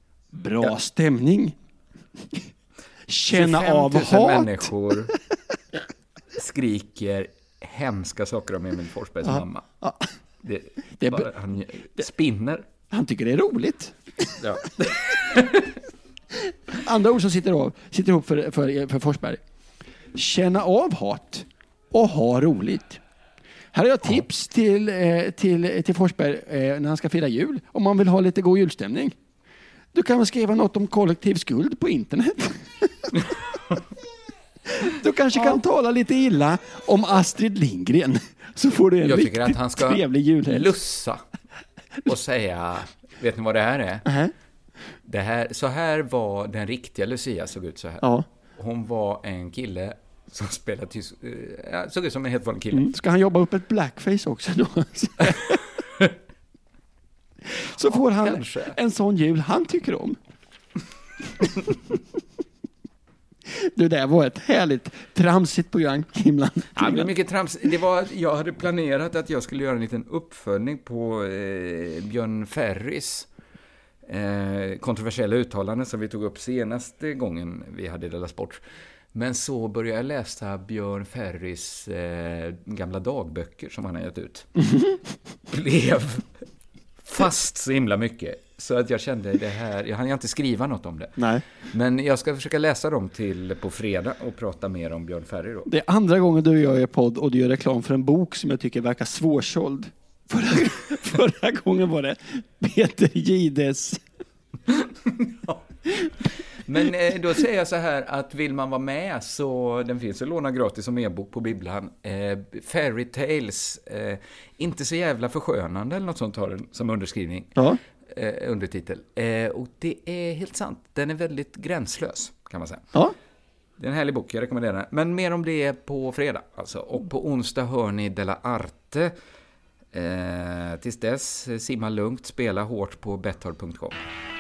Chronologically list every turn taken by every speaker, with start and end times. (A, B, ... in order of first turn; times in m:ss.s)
0:00.3-0:01.6 A
0:03.1-0:04.7 A
0:03.3-0:05.1 B
0:06.3-0:09.6 B
0:09.3-0:10.1 A
0:10.4-0:12.7 B
0:11.0-0:11.3 A
0:12.9-0:14.4 A
0:14.4-0:15.8 B
0:16.7-0:19.4 A
0:20.1-0:23.0 A
0:23.7-0:29.2 A
0:29.9-0:33.1 A
0:33.2-0:33.8 B
0:34.7-0:40.7 A
0:39.0-0:41.2 B
0:42.0-0:44.1 B
0:44.0-0:44.3 A
0:45.1-0:52.9 B
0:52.7-0:55.6 A
0:57.5-1:00.2 A
0:57.8-0:58.8 B
1:03.5-1:07.1 A
1:06.8-1:13.3 B
1:14.1-1:18.6 B
1:19.1-1:24.7 B
1:25.5-1:26.5 B
1:27.0-1:35.7 B
1:31.2-1:31.4 A
1:35.7-1:44.0 A
1:44.7-1:45.6 B
1:46.6-2:02.9 B
2:03.8-2:09.2 B
2:09.9-2:14.0 B